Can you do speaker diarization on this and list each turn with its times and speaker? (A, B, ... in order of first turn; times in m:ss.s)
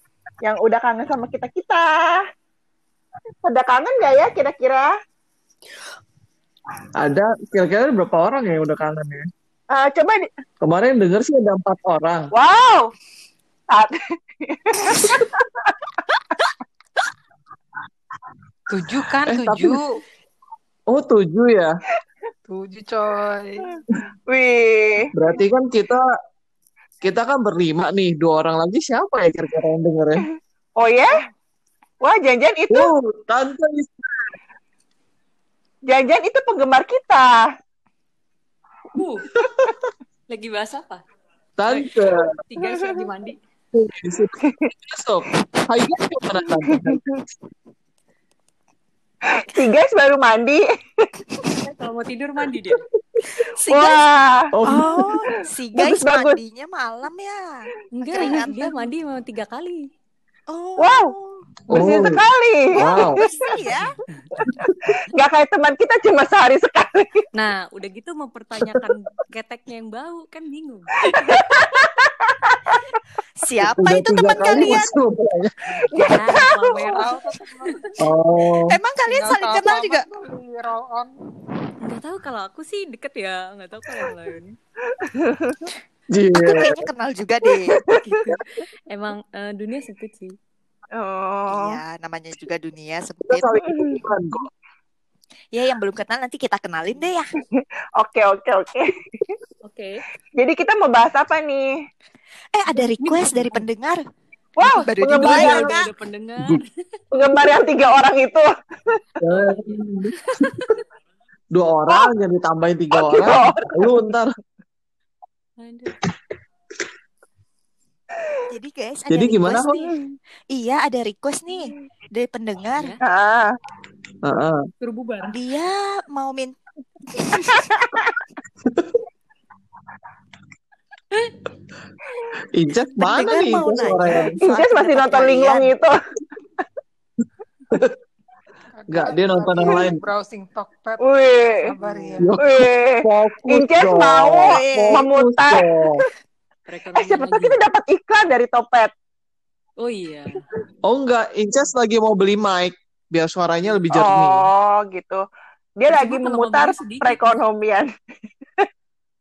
0:00.4-0:02.2 A
0:03.4-0:04.9 A
0:06.9-0:09.2 B
0:09.7-0:10.2 A
0:10.6-0:12.3 B
0:12.3-0:12.9 A
0:14.4-0:15.7 A
0:18.7-0:19.9 C
0:19.2-0:19.8 B
0:20.9-0:21.7 B
0:22.5-0:23.7 C
0:24.3-0:25.0 A
0:25.1-0:26.0 B
0:27.0-0:30.3 B
0:30.8-0:31.2 A
0:32.0-0:32.9 A
0:32.7-0:34.3 B
0:35.9-0:37.4 A
0:38.9-0:39.3 D
0:39.4-0:39.7 B
0:40.3-0:41.0 D
0:41.6-0:42.2 B
0:41.6-0:43.4 D
0:42.6-0:43.1 A
0:43.7-0:47.0 B
0:46.6-0:47.1 A
0:49.3-0:50.6 A
0:51.6-0:52.8 D
0:53.2-0:54.0 E
0:53.7-0:54.5 A
0:54.5-0:55.2 B
0:54.6-0:58.9 E
0:55.7-0:56.4 A
0:57.9-0:59.9 D
1:00.5-1:01.5 E
1:00.8-1:01.1 A
1:01.7-1:02.2 B
1:01.7-1:03.3 A
1:02.8-1:03.2 B
1:02.8-1:03.9 E
1:04.4-1:04.8 B
1:05.2-1:07.2 A
1:07.3-1:10.9 D
1:11.0-1:12.9 A
1:13.4-1:14.9 E
1:13.6-1:15.7 B
1:14.5-1:14.8 A
1:15.7-1:17.2 D
1:15.9-1:17.1 A
1:16.8-1:17.8 C
1:18.0-1:18.8 B
1:18.7-1:20.1 E
1:19.1-1:21.1 C
1:21.8-1:24.6 D
1:25.0-1:25.7 A
1:26.1-1:26.8 B
1:26.3-1:27.8 E
1:27.9-1:28.2 A
1:28.9-1:30.4 D
1:30.9-1:31.8 A
1:31.5-1:33.6 E
1:33.3-1:34.5 B
1:33.6-1:34.0 A
1:35.5-1:37.2 E
1:37.6-1:39.3 A
1:39.6-1:40.0 D
1:40.4-1:41.7 A
1:42.5-1:44.0 E
1:42.7-1:43.6 D
1:44.6-1:45.7 A
1:44.7-1:46.7 D
1:44.8-1:45.9 E
1:45.2-1:45.7 B
1:47.1-1:48.5 A
1:49.2-1:50.1 B
1:50.1-1:50.8 D
1:51.5-1:54.3 B
1:53.0-1:54.0 A
1:55.6-1:56.0 D
1:58.5-1:59.9 E
1:59.1-1:59.9 B
2:00.5-2:03.0 E
2:02.8-2:03.0 D
2:03.0-2:03.5 A
2:04.2-2:04.6 B
2:04.8-2:05.4 D
2:05.2-2:06.6 E
2:07.1-2:07.7 E
2:07.7-2:08.2 A
2:08.6-2:09.0 B
2:12.5-2:14.4 B
2:13.0-2:15.7 E
2:14.4-2:15.9 A
2:18.8-2:21.0 C
2:18.9-2:20.0 B
2:21.0-2:21.7 A
2:21.5-2:22.4 C
2:21.8-2:22.4 D
2:22.2-2:26.0 B
2:22.4-2:25.6 A
2:24.4-2:25.0 E
2:26.7-2:27.6 D
2:26.9-2:28.9 A
2:29.8-2:30.4 D
2:30.8-2:34.5 B
2:33.9-2:35.2 A
2:35.8-2:37.9 A
2:35.9-2:37.4 D